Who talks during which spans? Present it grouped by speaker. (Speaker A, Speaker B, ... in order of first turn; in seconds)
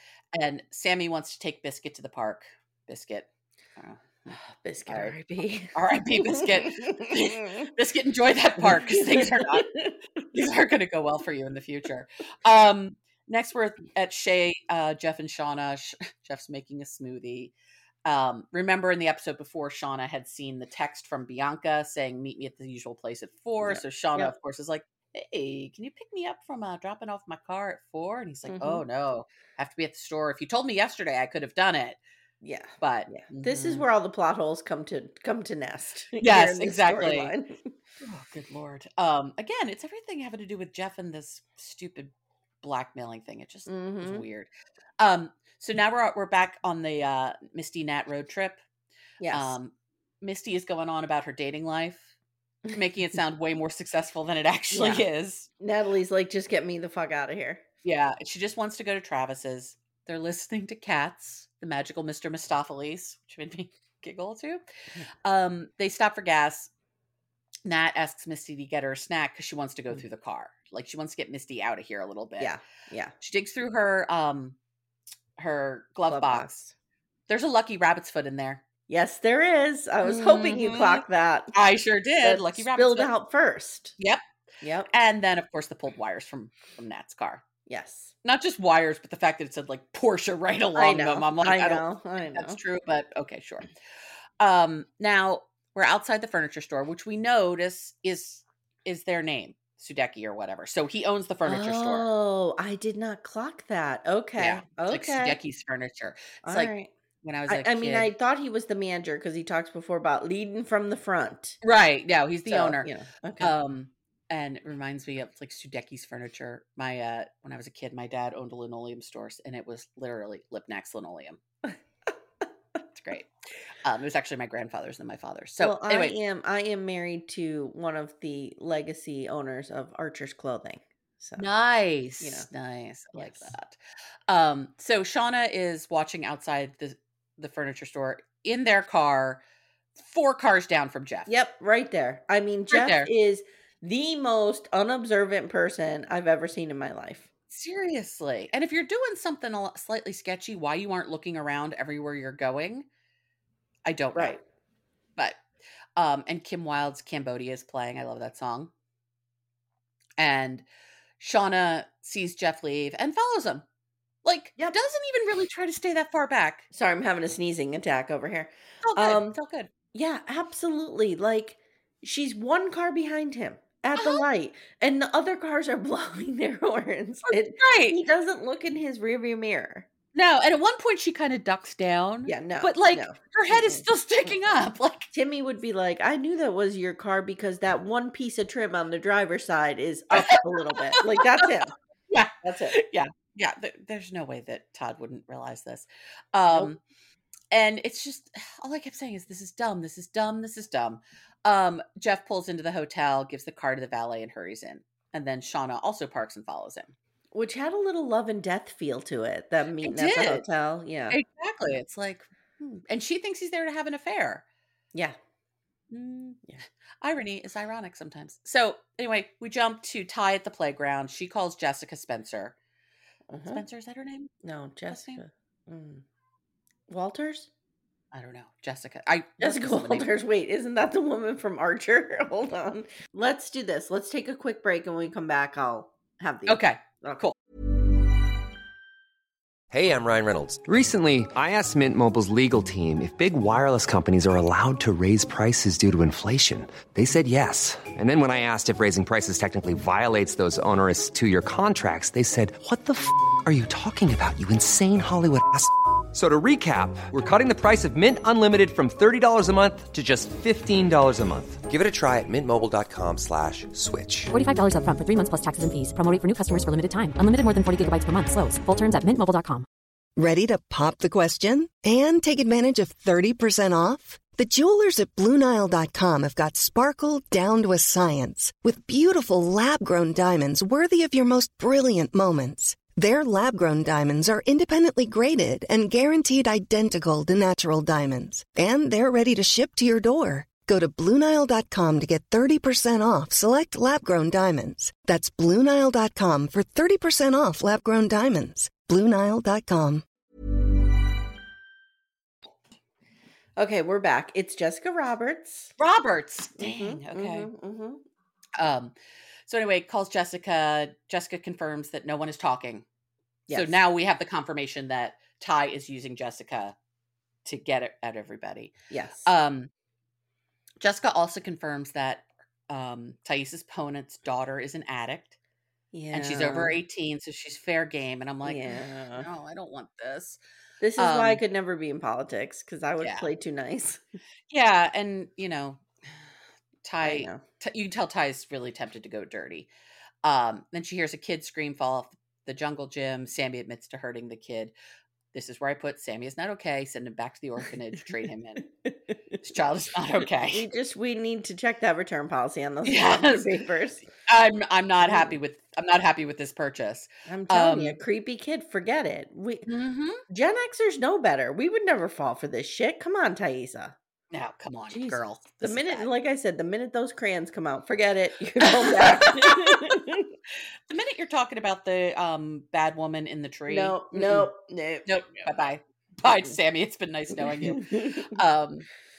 Speaker A: 0.3-4.4, 4.9-5.1, 5.7-17.5, 18.0-32.0, 32.8-33.9, 36.2-37.3, 38.0-48.6, 49.3-52.1, 52.7-55.5, 57.8-64.6, 65.2-66.7, 67.6-72.5, 73.2-74.6, 75.4-76.6, 77.3-78.6, 80.0-83.1, 84.9-87.4, 88.2-93.7, 94.4-102.1, 104.4-108.1, 111.6-121.4, 122.9-123.3, 123.8-126.2, 131.4-133.8, 134.3-139.4, 139.9-141.3, 142.7-143.1, 147.5-152.9, 153.8-154.4, 155.9-158.7, 160.2-160.7, 161.2-163.6, 164.2-166.7, 168.8-169.7, 173.9-174.2, 177.3-178.0, 180.1-185.1, 190.1-196.8, 197.5-206.9, 209.8-210.4, 211.1-214.4, 215.9-216.4, 217.0-222.5, 223.5-224.3, 224.9-225.2, 228.1-230.1, 236.5-237.3, 305.8-307.5, 308.6-308.9, 309.5-312.8, 313.5-316.8, 317.4-318.7, 319.2-319.7, 320.8-325.4, 326.1-330.4, 331.0-331.4, 333.0-333.3, 334.5-335.8, 336.8-339.7, 340.2-344.7, 345.3-348.6, 349.4-350.6, 352.8-353.5, 354.2-358.0, 359.7-360.2, 364.3-366.1, 368.6-370.0, 370.9-374.5, 375.1-378.9
Speaker B: 4.3-7.7, 8.6-9.9, 23.6-24.3, 28.5-28.8, 32.4-37.6, 43.7-44.2, 49.2-49.5, 54.7-55.0, 55.6-57.6, 72.4-73.1, 76.1-76.7, 78.9-81.5, 82.2-83.9, 84.6-84.9, 87.7-88.1, 90.8-92.6, 101.5-105.4, 106.4-106.9, 107.5-111.6, 112.5-113.5, 125.6-131.5, 132.2-132.5, 133.1-133.5, 141.3-147.3, 166.7-169.3, 169.9-179.8, 182.3-183.8, 185.1-191.7, 192.4-192.8, 207.3-211.2, 223.3-223.6, 224.4-226.0, 226.9-227.5, 229.4-237.2, 303.6-305.7, 306.6-308.0, 313.5-313.8, 318.9-319.3, 325.9-326.8, 328.4-329.3, 330.8-334.0, 337.0-337.4, 348.9-349.3, 350.4-354.0, 355.0-355.4, 357.3-359.7, 360.3-363.9, 364.9-370.3, 373.7-375.1, 377.6-378.3
Speaker C: 239.7-264.3
Speaker D: 264.3-269.6
Speaker E: 270.2-300.0